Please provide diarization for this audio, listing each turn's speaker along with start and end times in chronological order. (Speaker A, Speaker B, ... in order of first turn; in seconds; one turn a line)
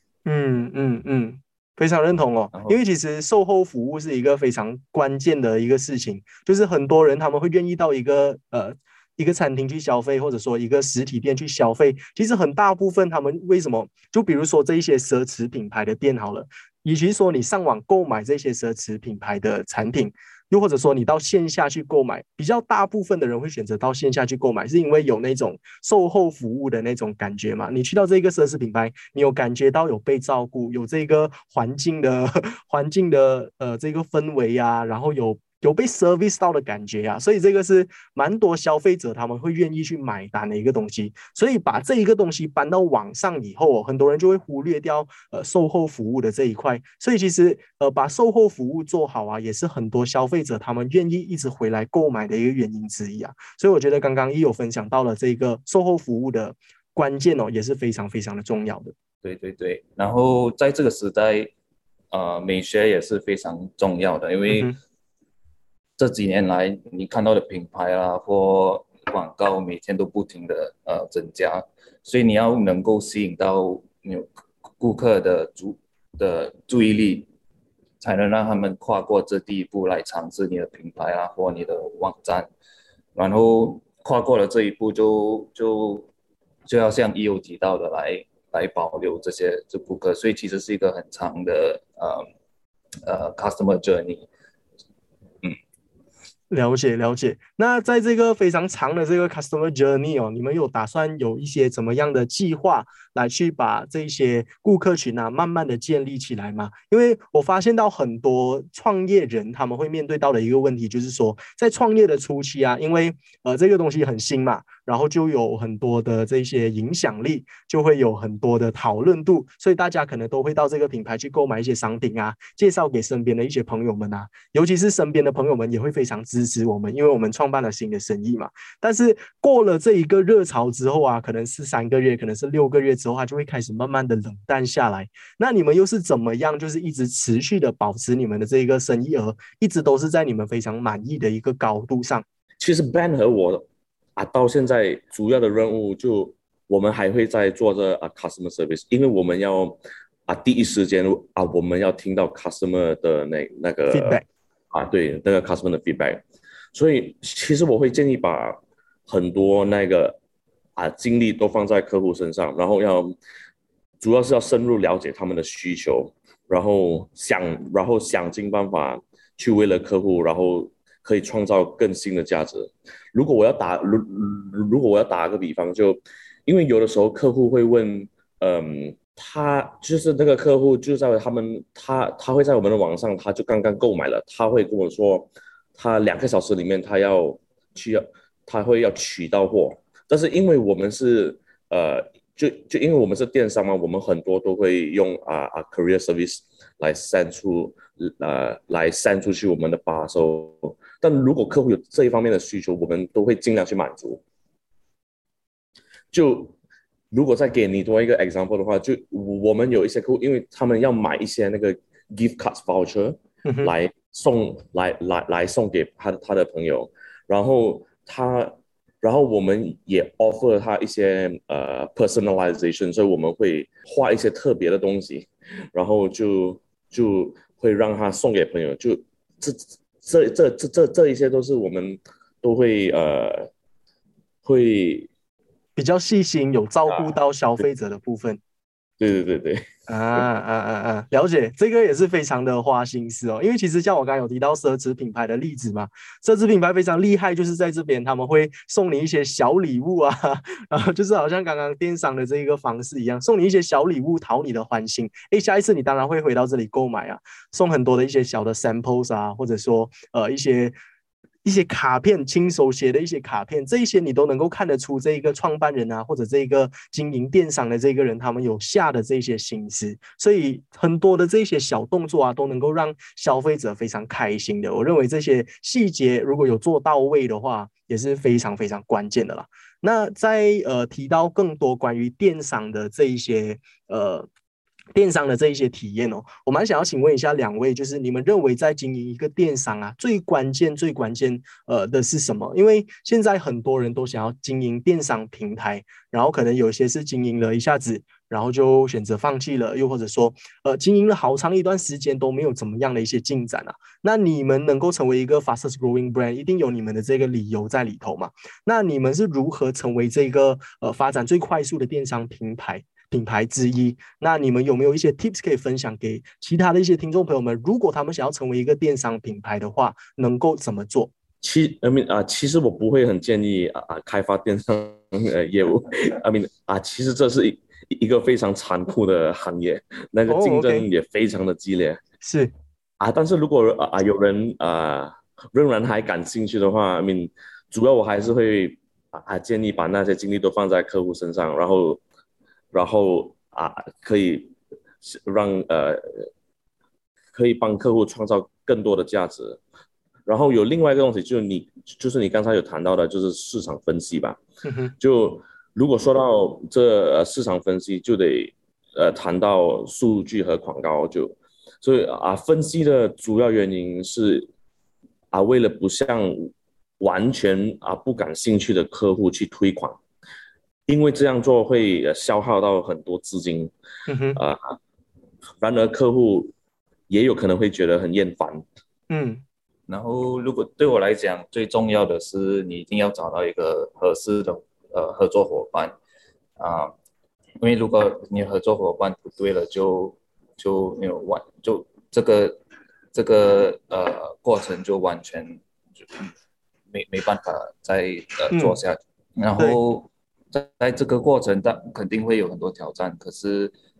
Speaker A: 0.2-58.9
Speaker B: 59.2-61.5
Speaker B: 62.1-64.7
Speaker A: 64.5-64.7
Speaker B: 66.0-77.3
Speaker B: 78.0-82.5
Speaker B: 83.1-86.1
Speaker B: 86.7-92.3
Speaker B: 93.0-94.3
Speaker A: 96.5-142.2
Speaker C: 142.6-143.6
Speaker C: 144.2-154.2
Speaker A: 153.9-154.2
Speaker C: 154.7-156.2
Speaker C: 156.7-160.2
Speaker C: 160.8-163.2
Speaker C: 164.0-204.2
Speaker C: 206.1-206.5
Speaker C: 207.1-233.5
Speaker A: 213.4-213.7
Speaker C: 234.4-235.1
Speaker A: 235.8-238.4
Speaker C: 239.0-239.6
Speaker A: 239.9-260.8
Speaker A: 261.4-284.3
Speaker A: 284.9-321.1
Speaker C: 321.4-332.0
Speaker A: 330.3-330.9
Speaker A: 332.2-332.5
Speaker C: 333.0-342.0
Speaker C: 342.7-346.3
Speaker C: 347.3-349.6
Speaker C: 350.2-354.4
Speaker A: 354.6-354.9
Speaker C: 355.0-364.5
Speaker C: 365.3-370.0
Speaker C: 370.9-373.7
Speaker A: 374.1-374.4
Speaker C: 374.3-374.8
Speaker C: 375.6-376.5
Speaker C: 377.1-378.6
Speaker A: 379.1-379.4
Speaker B: 379.9-385.9
Speaker B: 386.6-386.9
Speaker B: 387.6-392.6
Speaker B: 393.1-396.3
Speaker B: 396.9-403.7
Speaker A: 398.5-398.8